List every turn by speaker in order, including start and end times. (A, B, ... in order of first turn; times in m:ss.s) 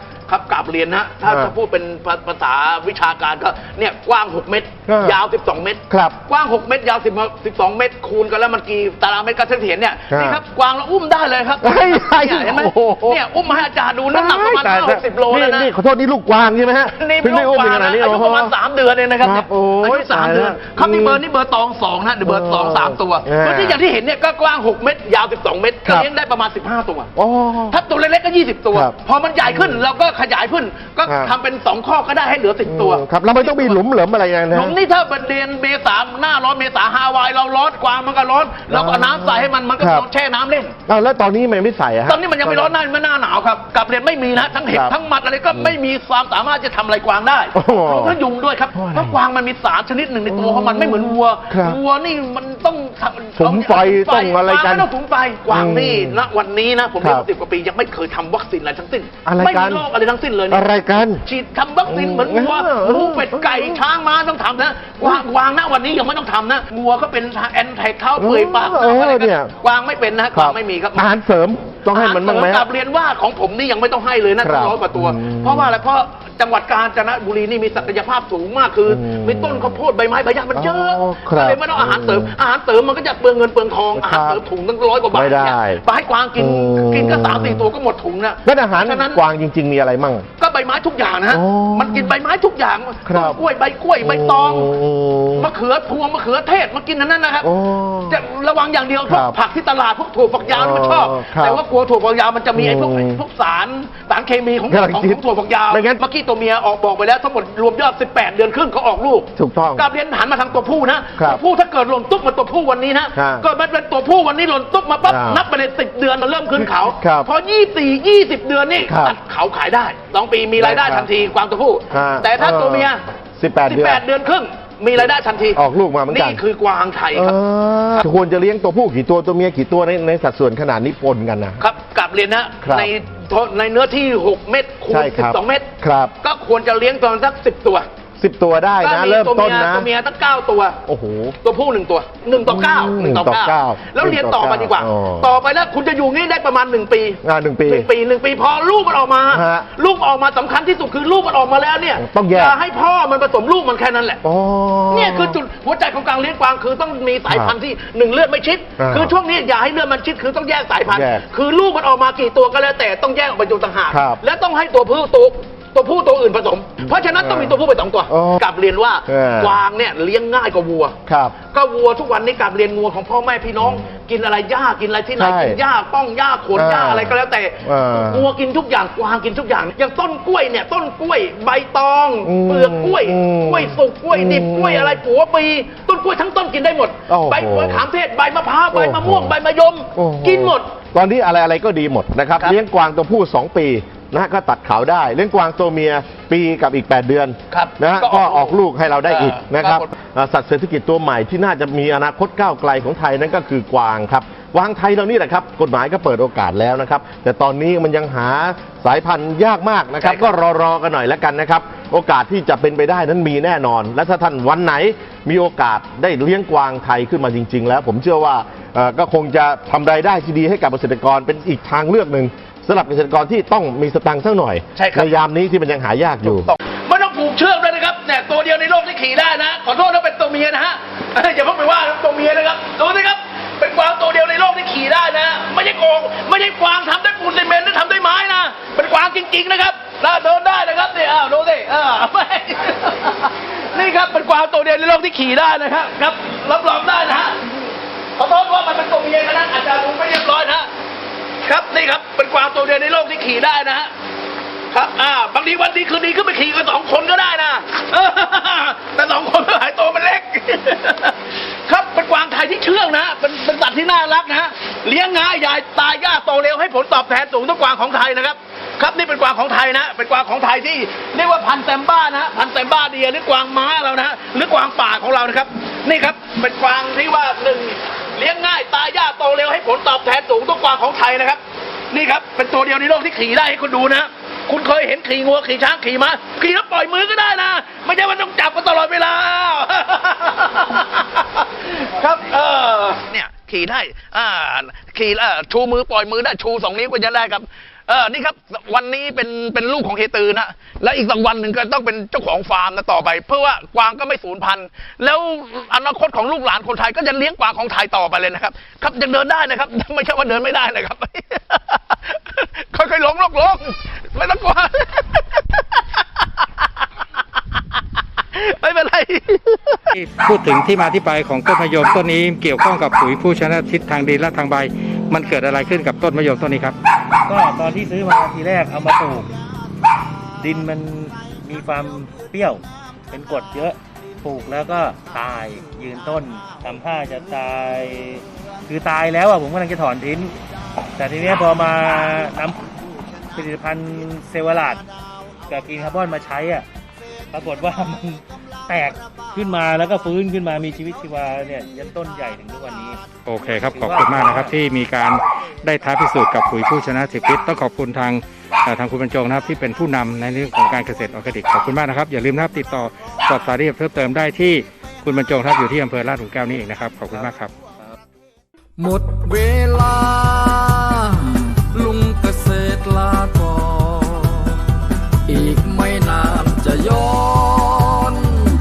0:00.3-0:15.7 A
0:01.2-0:01.5 B
0:04.9-0:05.2 B
0:05.9-0:06.2 B
0:10.1-0:10.4 B
0:11.6-0:13.2 B
0:14.1-0:18.5 B
0:16.9-0:27.1 A
0:19.2-0:21.2 B
0:22.2-0:23.8 B
0:27.2-0:27.8 B
0:27.7-0:33.8 A
0:28.7-0:29.8 B
0:31.0-0:31.3 B
0:32.6-0:34.8 B
0:34.5-0:40.8 A
0:38.7-0:40.1 B
0:40.8-0:42.8 B
0:42.0-1:11.1 A
0:44.6-0:44.9 B
0:47.5-0:48.2 B
0:48.7-0:49.2 B
0:50.2-0:51.8 B
0:53.4-0:54.9 B
0:55.5-0:56.2 B
0:57.0-0:57.3 B
0:59.2-0:59.9 B
1:00.5-1:01.2 B
1:01.8-1:03.8 B
1:08.2-1:09.5 B
1:10.3-1:12.7 B
1:11.9-1:29.2 A
1:14.4-1:15.8 B
1:18.9-1:19.8 B
1:20.5-1:22.4 B
1:23.9-1:24.4 B
1:25.1-1:25.8 B
1:26.4-1:27.7 B
1:28.4-1:30.3 B
1:30.4-1:34.7 A
1:31.3-1:32.2 B
1:33.0-1:33.4 B
1:34.0-1:35.5 B
1:35.4-1:37.5 A
1:37.4-1:38.3 B
1:38.1-2:03.0 A
1:39.0-1:39.4 B
1:40.4-1:41.6 B
1:42.5-1:43.2 B
1:44.7-1:46.0 B
1:49.4-1:49.9 B
1:51.2-1:51.4 B
1:53.1-1:53.4 B
1:55.0-1:55.4 B
1:56.6-1:57.3 B
1:58.8-1:59.2 B
2:00.6-2:01.1 B
2:01.9-2:04.0 B
2:03.7-2:07.4 A
2:05.5-2:06.4 B
2:07.1-2:11.6 B
2:11.6-2:17.9 A
2:12.6-2:12.9 B
2:14.9-2:16.1 B
2:18.2-2:19.9 B
2:18.8-2:20.8 A
2:20.9-2:21.4 B
2:21.4-2:34.2 A
2:22.4-2:25.3 B
2:27.2-2:27.9 B
2:29.3-2:29.7 B
2:31.9-2:32.6 B
2:34.2-2:35.4 B
2:34.9-2:50.9 A
2:37.3-2:37.5 B
2:38.8-2:39.2 B
2:40.9-2:41.2 B
2:43.9-2:44.2 B
2:46.8-2:48.4 B
2:49.1-2:49.6 B
2:51.0-2:51.3 B
2:51.5-3:10.7 A
2:55.2-2:55.6 B
2:56.5-2:58.3 B
3:02.2-3:05.0 B
3:07.1-3:07.8 B
3:08.7-3:09.3 B
3:09.9-3:46.5 B
3:17.5-3:19.9 A
3:30.0-3:30.3 A
3:44.8-3:45.1 A
3:46.2-4:07.5 A
4:08.2-4:10.7 A
4:11.4-4:13.9 A
4:14.7-4:41.4 A
4:41.9-5:16.7 A
5:18.3-5:19.8 A
5:19.9-5:26.8 C
5:27.3-5:29.3 D
5:30.4-5:40.4 D
5:41.0-5:42.6 D
5:43.3-5:44.8 D
5:45.5-5:46.6 D
5:47.3-5:54.6 D
5:53.2-6:07.5 C
6:08.8-6:10.5 E
6:11.8-6:14.1 E
6:15.3-6:18.2 E